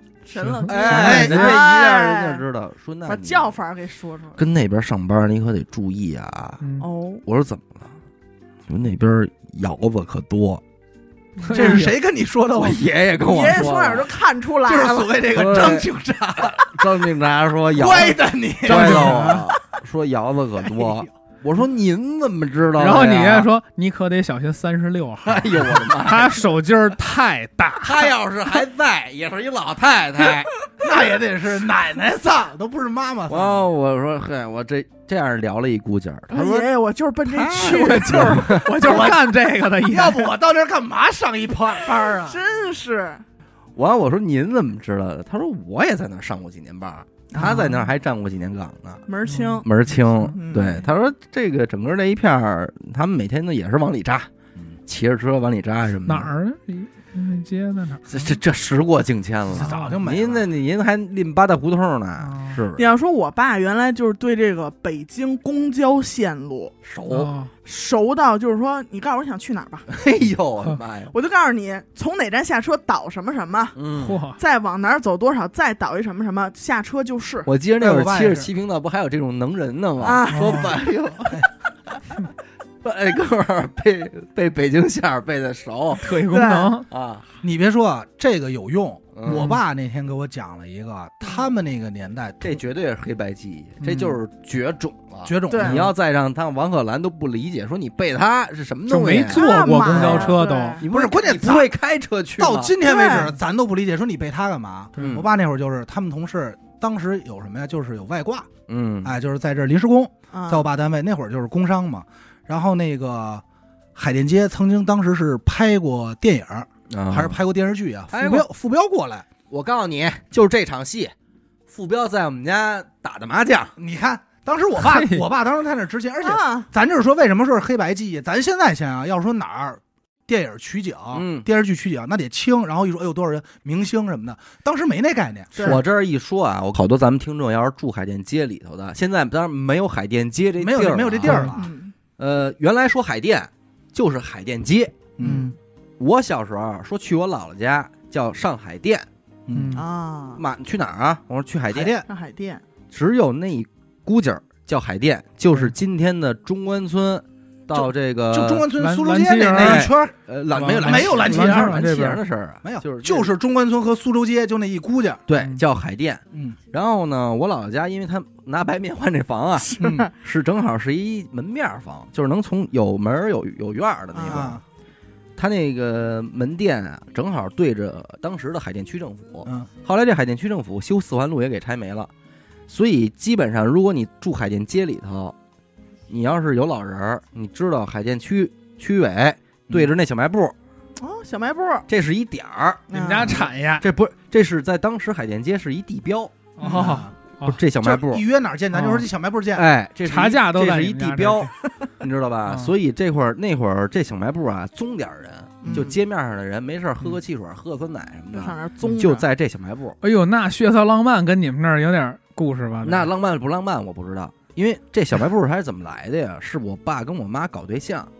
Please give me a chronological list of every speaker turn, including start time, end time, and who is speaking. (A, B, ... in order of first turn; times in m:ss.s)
0:00.2-0:02.4 A
0:00.4-0:01.4 B
0:00.7-0:03.6 C
0:00.8-0:01.6 D
0:03.0-0:04.4 A
0:04.4-0:06.6 C
0:06.6-0:06.8 B
0:06.8-0:07.2 A
0:07.2-0:07.9 C
0:08.7-0:10.6 C
0:11.4-0:11.9 B
0:11.5-0:12.9 D
0:11.5-0:11.8 C
0:12.6-0:14.1 C
0:13.2-0:15.1 A
0:14.6-0:16.9 D
0:15.0-0:23.5 C
0:17.7-0:19.4 D
0:18.6-0:19.4 B
0:22.8-0:28.2 B
0:25.2-0:26.4 C
0:27.8-0:30.5 C
0:30.8-0:33.7 D
0:33.3-0:36.7 C
0:36.3-0:38.6 A
0:37.3-0:42.4 D
0:37.6-0:40.3 B
0:37.6-0:39.1 C
0:41.9-0:43.2 A
0:43.7-0:49.0 C
0:47.3-0:47.6 A
0:47.4-0:47.8 B
0:49.1-0:49.7 A
0:49.2-0:50.2 B
0:49.6-0:54.3 C
0:50.2-0:50.9 A
0:54.8-0:56.3 C
0:56.0-0:58.4 B
0:58.1-1:02.8 C
0:59.5-1:00.5 D
0:59.5-1:00.0 B
1:02.2-1:02.6 B
1:02.8-1:06.7 A
1:06.8-1:07.3 C
1:07.1-1:07.5 B
1:07.6-1:09.9 A
1:09.9-1:11.1 C
1:11.1-1:13.8 A
1:13.8-1:14.2 C
1:13.9-1:14.4 B
1:14.4-1:17.5 A
1:17.4-1:21.5 C
1:17.8-1:18.5 D
1:20.0-1:20.8 A
1:20.3-1:20.8 B
1:22.8-1:26.1 C
1:26.0-1:26.9 B
1:26.2-1:26.7 A
1:26.9-1:27.2 C
1:27.4-1:32.6 D
1:29.1-1:29.6 C
1:29.2-1:29.6 B
1:32.4-1:42.8 C
1:33.8-1:34.2 B
1:35.2-1:35.9 D
1:35.5-1:35.9 A
1:38.9-1:40.8 B
1:39.2-1:40.8 A
1:40.8-1:41.7 D
1:42.4-1:48.5 D
1:42.8-1:43.3 A
1:45.0-1:45.3 C
1:48.7-1:49.1 C
1:49.0-1:53.4 D
1:50.3-1:50.6 A
1:53.9-1:59.2 D
1:56.9-1:57.4 C
1:58.1-1:58.5 C
1:59.5-2:01.1 C
2:01.7-2:03.7 C
2:03.8-2:15.8 D
2:04.8-2:05.2 B
2:06.2-2:06.7 A
2:11.1-2:11.4 C
2:15.5-2:15.8 A
2:15.6-2:21.6 C
2:20.6-2:21.6 D
2:21.2-2:21.5 B
2:21.5-2:21.9 A
2:22.2-2:25.0 C
2:25.2-2:25.5 D
2:25.2-2:25.5 A
2:26.0-2:29.1 C
2:29.5-2:29.8 D
2:29.5-2:29.8 B
2:29.7-2:30.4 A
2:30.4-2:32.0 C
2:31.7-2:32.0 D
2:32.0-2:32.6 A
2:32.9-2:38.7 C
2:37.7-2:40.1 D
2:38.8-2:39.9 B
2:39.5-2:43.3 C
2:40.5-2:42.2 B
2:40.7-2:42.0 D
2:42.6-2:45.2 D
2:45.3-2:54.6 C
2:46.3-2:46.6 D
2:49.6-2:50.1 A
2:49.8-2:50.1 D
2:54.1-2:54.5 A
2:54.2-2:54.6 D
2:55.4-3:02.1 C
3:02.7-3:05.4 C
3:06.1-3:10.6 C
3:11.0-3:11.9 A
3:11.9-3:18.2 C
3:12.9-3:13.4 A
3:12.9-3:13.8 B
3:16.6-3:17.6 B
3:16.6-3:17.1 D
3:17.8-3:19.7 D
3:18.7-3:19.1 B
3:19.5-3:30.0 C
3:20.0-3:21.5 B
3:22.4-3:22.7 B
3:25.6-3:26.0 A
3:28.3-3:29.2 A
3:28.8-3:29.2 B
3:30.0-3:33.1 B
3:32.8-3:38.1 C